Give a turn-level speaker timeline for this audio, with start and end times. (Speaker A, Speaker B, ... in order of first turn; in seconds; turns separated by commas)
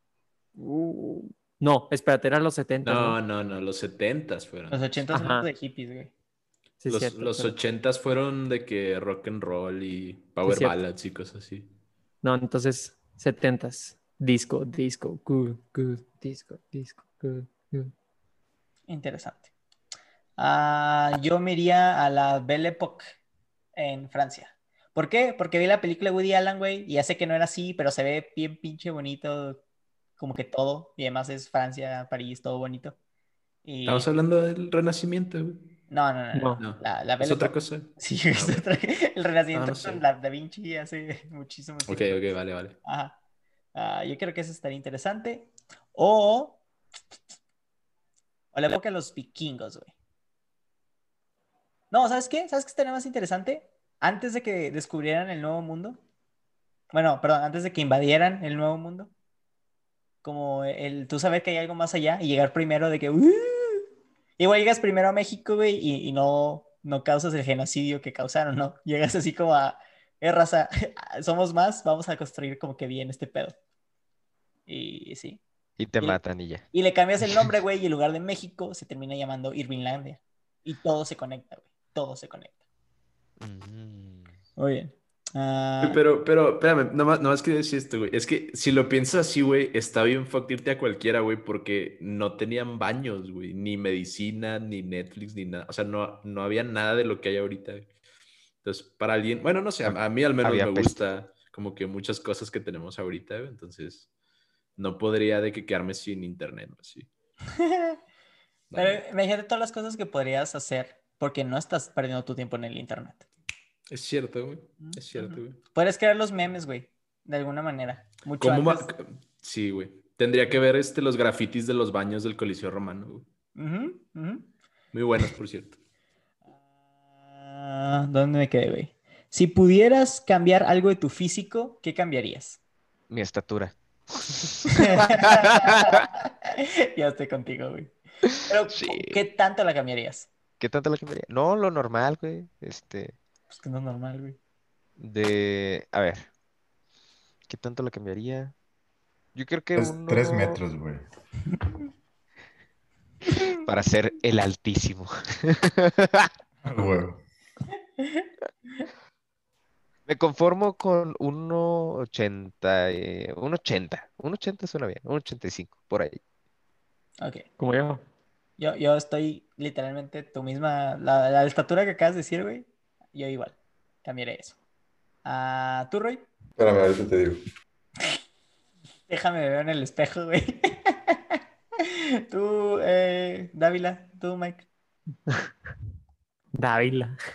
Speaker A: 0.6-3.2, Speaker B: 2.8-4.9, Speaker C: 4.7-6.1, Speaker A: 5.1-5.5, Speaker A: 6.8-7.5, Speaker B: 6.9-11.7, Speaker A: 10.4-10.8, Speaker A: 12.2-17.9, Speaker C: 18.9-19.5, Speaker C: 20.4-23.2, Speaker C: 23.8-29.6, Speaker C: 30.2-33.0, Speaker C: 33.6-34.1, Speaker B: 33.9-35.7, Speaker C: 35.9-42.2, Speaker A: 36.3-36.6, Speaker B: 36.6-38.6, Speaker B: 39.5-40.0, Speaker B: 41.9-42.8, Speaker C: 42.8-43.2, Speaker C: 43.7-46.6, Speaker C: 48.5-49.9, Speaker C: 51.9-56.0, Speaker C: 56.9-59.1, Speaker C: 60.2-63.8, Speaker C: 64.4-73.5, Speaker C: 74.7-75.4, Speaker D: 75.8-76.7, Speaker C: 76.0-82.5, Speaker D: 83.4-84.3, Speaker C: 84.6-86.0, Speaker B: 85.8-97.9, Speaker B: 98.6-104.1, Speaker D: 99.8-101.0, Speaker B: 104.8-107.1, Speaker C: 107.5-108.0, Speaker B: 108.7-109.0, Speaker C: 108.7-113.2, Speaker B: 113.9-115.6, Speaker C: 114.8-118.9, Speaker B: 118.4-123.2, Speaker C: 123.5-124.5, Speaker B: 124.9-125.8, Speaker C: 127.2-132.6, Speaker D: 133.1-136.0, Speaker C: 134.7-140.3, Speaker D: 138.7-139.2, Speaker D: 140.6-143.2, Speaker C: 143.5-144.4, Speaker D: 145.0-146.3, Speaker D: 147.5-148.5, Speaker D: 149.3-150.6, Speaker E: 149.7-151.0, Speaker C: 153.3-153.6, Speaker D: 153.5-156.3, Speaker E: 156.6-157.2, Speaker C: 158.0-158.3, Speaker D: 160.1-166.2, Speaker C: 167.2-167.4, Speaker A: 167.6-168.0, Speaker C: 168.6-174.6, Speaker C: 175.2-176.2, Speaker E: 176.6-177.4, Speaker C: 179.1-184.7, Speaker A: 186.6-187.1